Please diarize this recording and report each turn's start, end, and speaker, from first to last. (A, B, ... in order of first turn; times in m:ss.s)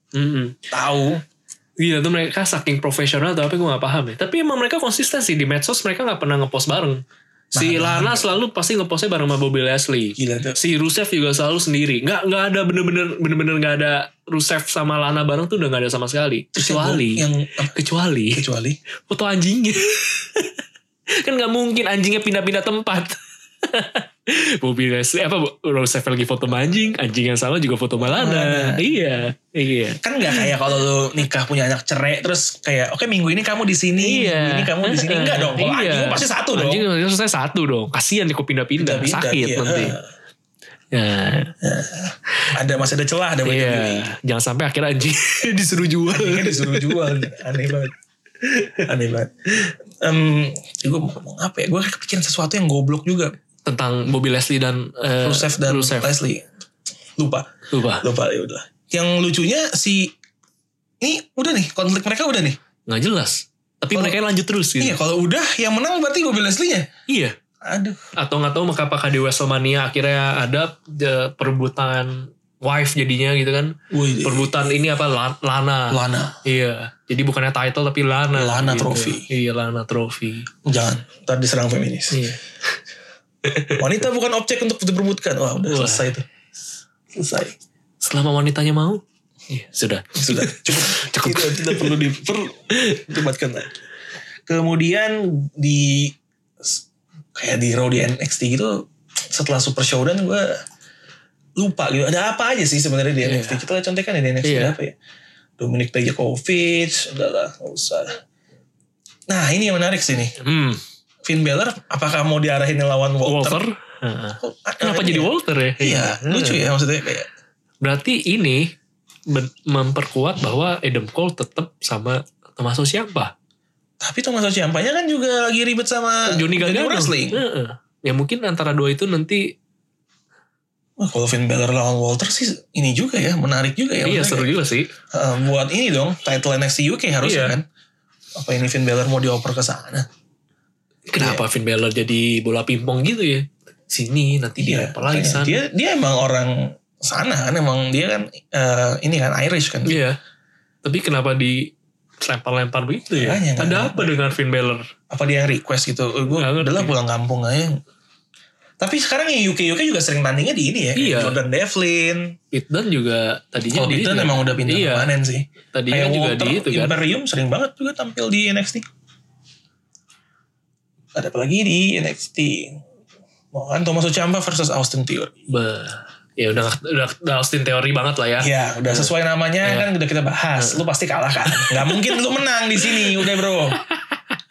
0:00.1-0:00.6 A
0:00.7-0:01.2 B
0:01.8-0:07.0 A
0:07.5-0:08.3 B
0:07.5-0:18.4 A
0:10.2-0:10.6 B
0:16.5-0:17.7 B
0:18.3-0:18.8 B
0:19.1-0:20.6 A
0:21.2-0:30.5 A
0:28.0-0:28.9 B
0:30.0-0:36.8 B
0:34.0-0:40.0 A
0:38.8-0:40.1 B
0:40.9-0:41.5 A
0:41.6-0:44.1 B
0:43.4-0:47.2 A
0:46.1-0:47.9 B
0:48.4-0:48.8 A
0:48.8-0:49.3 B
0:50.0-0:53.3 B
0:53.6-0:56.1 A
0:55.2-0:56.5 B
0:57.2-0:57.5 B
0:57.7-0:58.0 A
0:58.0-1:00.1 B
1:01.0-1:02.6 B
1:02.9-1:05.0 A
1:04.8-1:06.9 B
1:07.1-1:07.3 A
1:07.6-1:08.0 B
1:08.2-1:20.5 A
1:13.9-1:14.5 B
1:15.9-1:16.4 B
1:18.3-1:19.3 B
1:20.6-1:22.3 B
1:22.1-1:22.4 A
1:23.4-1:23.8 A
1:23.7-1:26.2 B
1:25.7-1:26.1 A
1:27.1-1:27.6 B
1:28.0-1:32.0 A
1:30.2-1:33.7 B
1:34.5-1:36.8 B
1:37.3-1:40.6 B
1:41.6-1:44.9 B
1:43.2-1:43.6 A
1:44.4-1:44.7 A
1:45.6-1:48.2 B
1:49.3-1:50.4 B
1:50.4-1:50.8 A
1:51.2-1:53.6 B
1:53.2-1:56.7 A
1:54.4-1:57.3 B
1:57.8-1:58.7 A
1:59.3-2:03.3 A
2:04.0-2:07.4 B
2:06.3-2:09.5 A
2:11.0-2:14.5 B
2:14.0-2:14.9 A
2:15.1-2:17.6 B
2:17.2-2:17.6 A
2:18.3-2:20.1 B
2:21.1-2:25.6 A
2:21.2-2:21.4 B
2:24.6-2:30.0 B
2:29.8-2:30.2 A
2:30.8-2:34.8 A
2:33.1-2:34.3 B
2:35.1-2:37.8 B
2:36.3-2:36.9 A
2:38.8-2:42.3 B
2:40.9-2:41.4 A
2:42.5-2:45.1 A
2:43.7-2:48.8 B
2:45.7-2:47.0 A
2:51.1-2:52.8 B
2:53.5-2:55.3 B
2:55.5-2:59.1 A
2:58.4-3:03.8 B
3:01.5-3:02.2 A